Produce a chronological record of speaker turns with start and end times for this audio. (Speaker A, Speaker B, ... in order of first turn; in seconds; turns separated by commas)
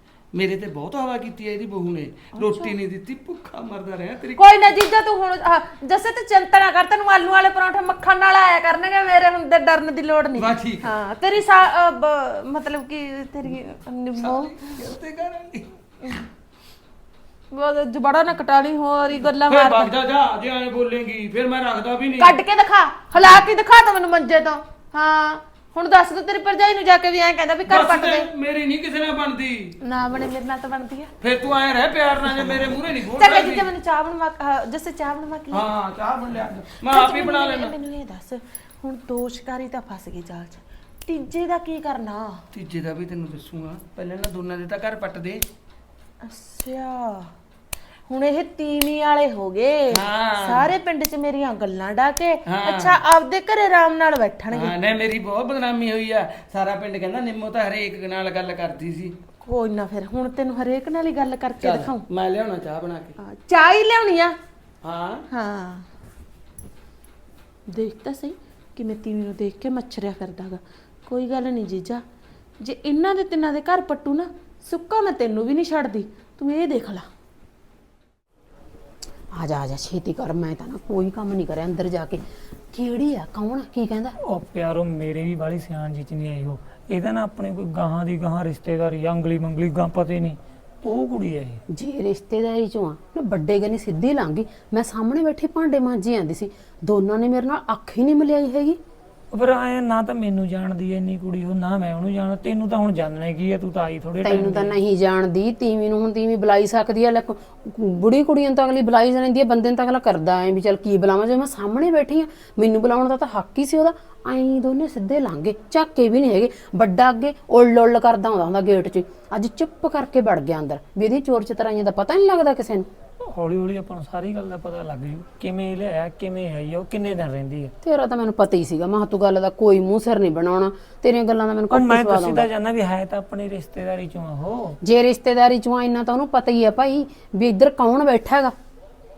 Speaker A: 0.3-4.4, Speaker B: 2.3-2.7, Speaker B: 4.4-14.8, Speaker A: 10.3-10.9, Speaker A: 14.2-15.7, Speaker B: 17.5-19.9, Speaker A: 19.4-22.4, Speaker B: 22.2-28.3, Speaker A: 27.7-29.7, Speaker B: 29.8-31.1, Speaker A: 31.2-33.7, Speaker B: 32.3-35.7, Speaker A: 35.5-37.7, Speaker B: 36.9-42.4, Speaker A: 42.5-45.4, Speaker B: 46.2-47.3, Speaker B: 48.1-54.7, Speaker A: 49.9-50.7, Speaker A: 52.5-53.0, Speaker A: 54.5-59.1, Speaker B: 59.4-62.0, Speaker A: 61.6-63.1, Speaker B: 63.2-64.4, Speaker A: 64.8-65.2, Speaker B: 65.3-65.8, Speaker B: 67.7-72.0, Speaker B: 72.6-77.1, Speaker C: 79.3-82.2, Speaker C: 82.7-84.2, Speaker D: 84.2-91.6, Speaker C: 91.7-98.8, Speaker D: 99.3-104.8, Speaker C: 104.2-122.9, Speaker D: 123.2-127.7, Speaker C: 127.8-132.5, Speaker D: 131.7-134.8, Speaker C: 134.8-138.5